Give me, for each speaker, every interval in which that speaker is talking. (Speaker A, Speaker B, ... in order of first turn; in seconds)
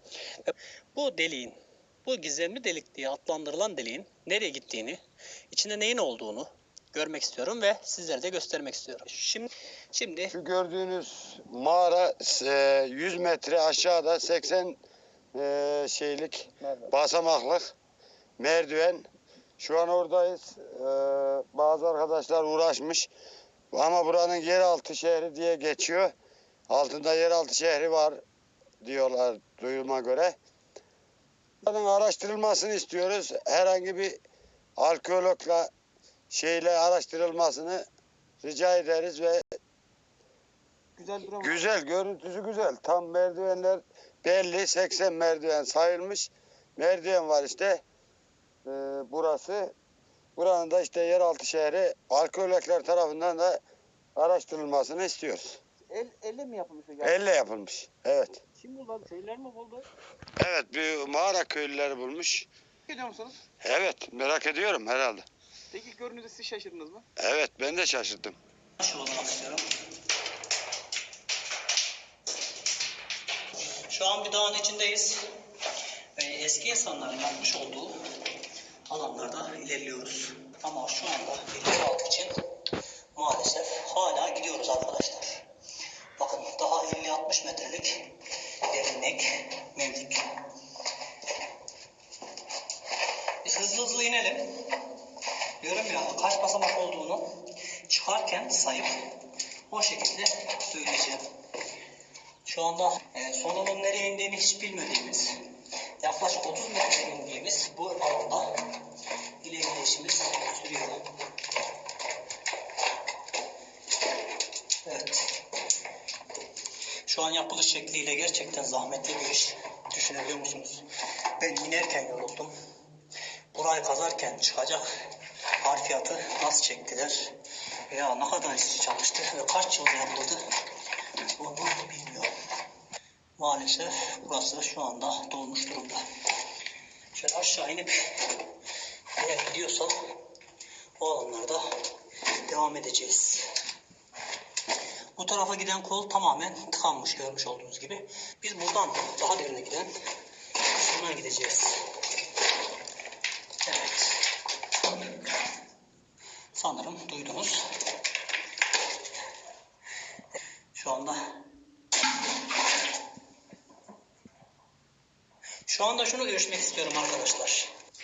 Speaker A: 0.5-10.3, 68.8-69.7, 73.8-75.2, 76.2-78.0, 78.9-82.4, 83.1-85.4, 86.2-88.1, 88.6-90.3, 93.4-94.7, 95.6-97.3, 97.9-99.1, 99.7-101.3, 102.5-105.4, 106.0-108.8, 109.4-111.0, 114.8-115.4, 117.0-120.8, 121.4-122.5, 123.5-124.8, 125.6-127.3, 127.9-130.4, 131.3-132.3, 133.4-136.0, 137.1-138.3, 139.2-140.0, 141.0-141.7, 142.3-143.5, 145.2-149.9, 150.7-151.8, 153.6-154.2, 156.5-157.7, 160.7-161.2, 165.7-167.7
Speaker B: 10.3-14.8, 15.3-17.7, 18.4-19.1, 19.6-23.1, 23.7-26.1, 26.7-28.2, 28.8-30.4, 31.6-34.2, 34.8-35.7, 36.3-37.9, 38.4-39.6, 41.4-47.8, 48.6-49.8, 50.4-53.6, 54.2-55.6, 57.0-58.4, 60.4-62.5, 63.6-65.3, 67.2-68.4
Speaker C: 41.0-41.6, 55.9-57.2, 58.6-59.9, 62.9-63.4, 65.7-67.1